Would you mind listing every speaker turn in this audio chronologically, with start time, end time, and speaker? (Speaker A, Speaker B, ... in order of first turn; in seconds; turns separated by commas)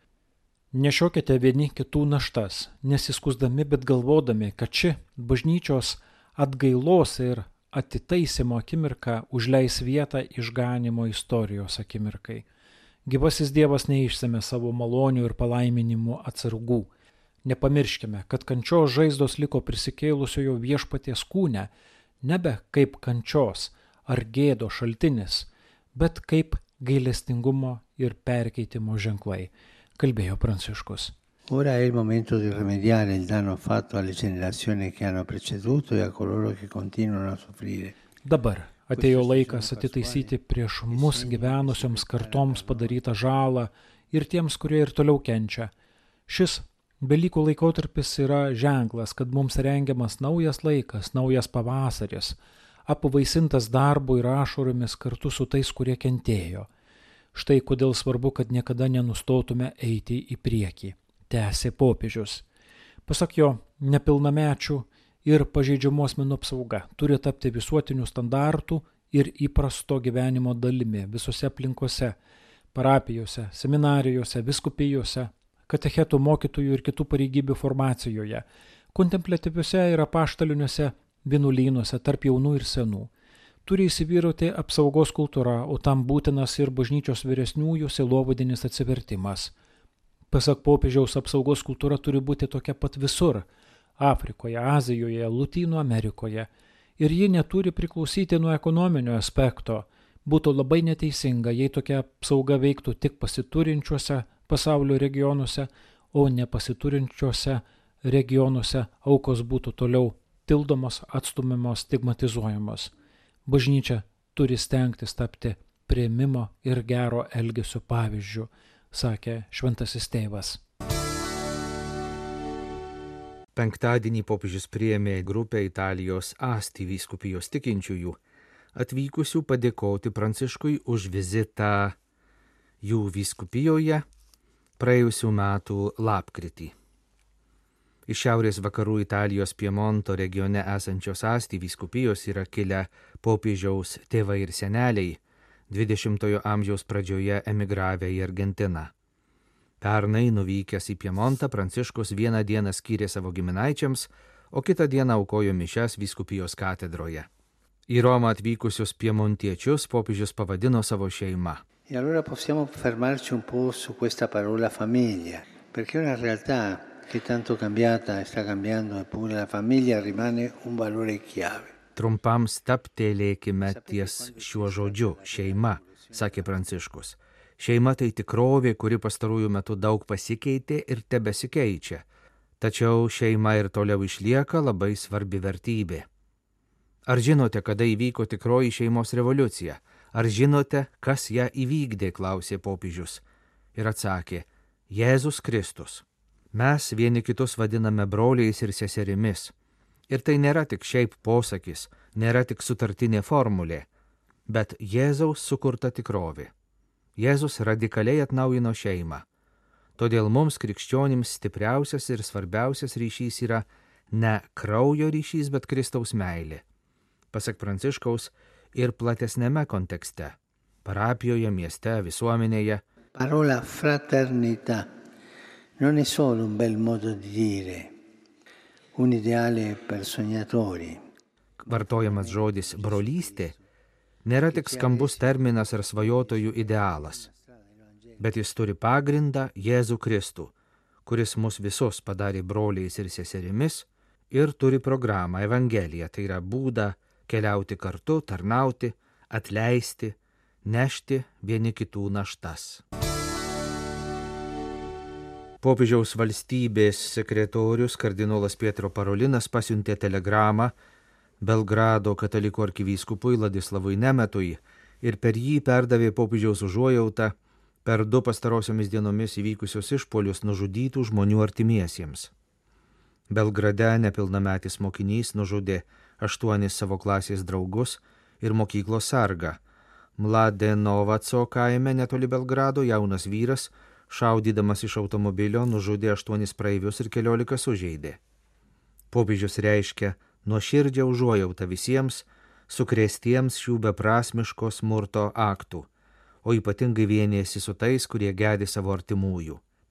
Speaker A: 0.7-12.4, Speaker A: 13.1-16.9, Speaker A: 17.4-21.7, Speaker A: 22.2-31.1, Speaker B: 31.5-38.0, Speaker A: 38.2-45.7, Speaker B: 38.9-40.3, Speaker B: 40.9-43.0, Speaker A: 46.3-56.7, Speaker A: 57.3-62.4, Speaker A: 63.1-72.1, Speaker A: 72.7-83.1, Speaker A: 83.7-89.5, Speaker A: 90.3-93.5, Speaker A: 94.0-96.5, Speaker A: 97.0-112.9, Speaker A: 113.5-120.6, Speaker C: 123.5-128.2, Speaker C: 128.8-131.9, Speaker C: 132.8-134.0, Speaker C: 134.8-136.7, Speaker C: 138.1-148.9, Speaker C: 149.8-157.3, Speaker C: 157.9-161.6, Speaker B: 161.9-171.7, Speaker C: 171.9-182.0, Speaker B: 173.6-176.5, Speaker C: 182.6-186.0, Speaker C: 187.1-193.2, Speaker C: 193.8-199.5, Speaker C: 200.1-203.9, Speaker C: 204.5-206.5, Speaker C: 207.2-209.2, Speaker C: 210.0-216.6, Speaker C: 217.3-222.8, Speaker B: 223.1-224.9, Speaker B: 225.8-227.9, Speaker B: 228.9-231.0, Speaker C: 231.6-233.6, Speaker B: 231.7-233.6, Speaker C: 234.2-237.3, Speaker B: 234.5-238.2, Speaker C: 238.2-240.5, Speaker C: 241.1-252.8, Speaker C: 255.6-260.7, Speaker C: 261.4-267.3, Speaker C: 267.8-272.3, Speaker C: 273.3-279.6, Speaker C: 280.2-288.2, Speaker C: 289.1-295.9, Speaker C: 296.4-299.6